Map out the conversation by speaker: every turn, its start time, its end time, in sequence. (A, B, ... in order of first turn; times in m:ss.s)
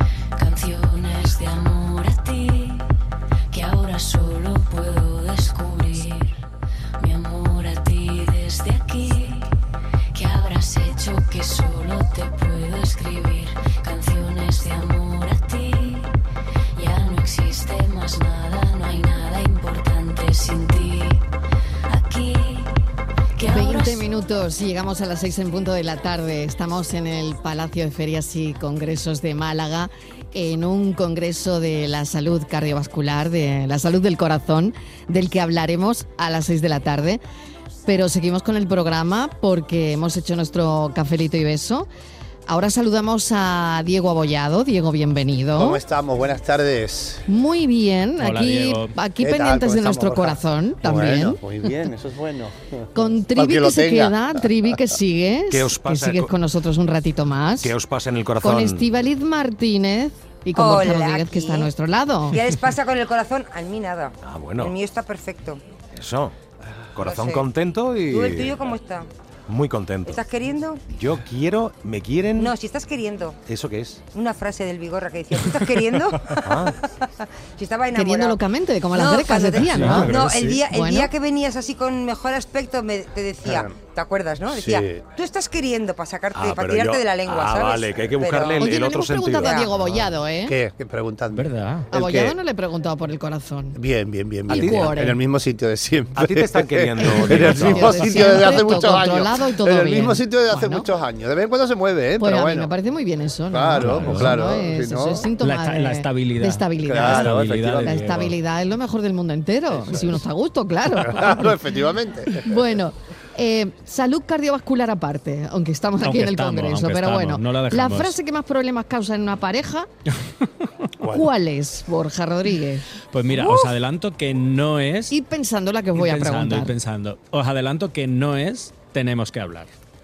0:00.4-0:02.7 A
0:03.5-0:06.2 A
0:07.0-0:09.4 A
0:10.1-0:16.0 A
0:16.8-0:21.1 A
0:21.9-0:22.6 A
0:23.4-0:37.2 B
0:37.8-0:41.9 B
0:42.4-0:45.8 B
0:45.6-0:47.3 C
0:47.3-0:51.8 B
0:48.2-0:49.0 D
0:49.2-0:54.5 C
0:52.9-0:57.7 B
0:55.5-0:56.4 E
0:57.6-0:58.9 E
0:58.4-1:02.4 B
1:00.5-1:01.7 F
1:02.3-1:05.6 F
1:04.2-1:04.7 E
1:05.9-1:06.4 E
1:06.9-1:08.7 E
1:07.0-1:07.4 F
1:08.1-1:09.1 F
1:09.5-1:10.2 E
1:10.0-1:10.8 F
1:10.9-1:12.6 E
1:12.4-1:13.4 F
1:13.4-1:14.0 E
1:14.1-1:18.4 F
1:16.4-1:16.8 E
1:17.9-1:20.2 B
1:18.9-1:28.8 F
1:19.6-1:20.6 D
1:20.7-1:21.1 B
1:23.4-1:23.7 C
1:24.5-1:25.0 C
1:26.3-1:29.7 E
1:28.6-1:30.6 B
1:29.4-1:29.7 F
1:30.4-1:32.4 C
1:31.3-1:31.9 D
1:31.9-1:33.8 B
1:33.7-1:42.7 C
1:34.5-1:35.2 B
1:34.5-1:34.9 E
1:36.1-1:38.6 E
1:37.0-1:40.9 B
1:42.2-1:51.6 B
1:43.5-1:45.3 C
1:43.7-1:44.4 D
1:45.4-1:48.3 D
1:46.8-1:48.0 C
1:49.7-1:50.2 C
1:51.0-1:52.7 C
1:52.4-1:59.9 B
1:56.0-1:58.2 D
2:01.0-2:03.6 B
2:03.1-2:05.2 D
2:05.1-2:06.8 B
2:05.9-2:09.7 D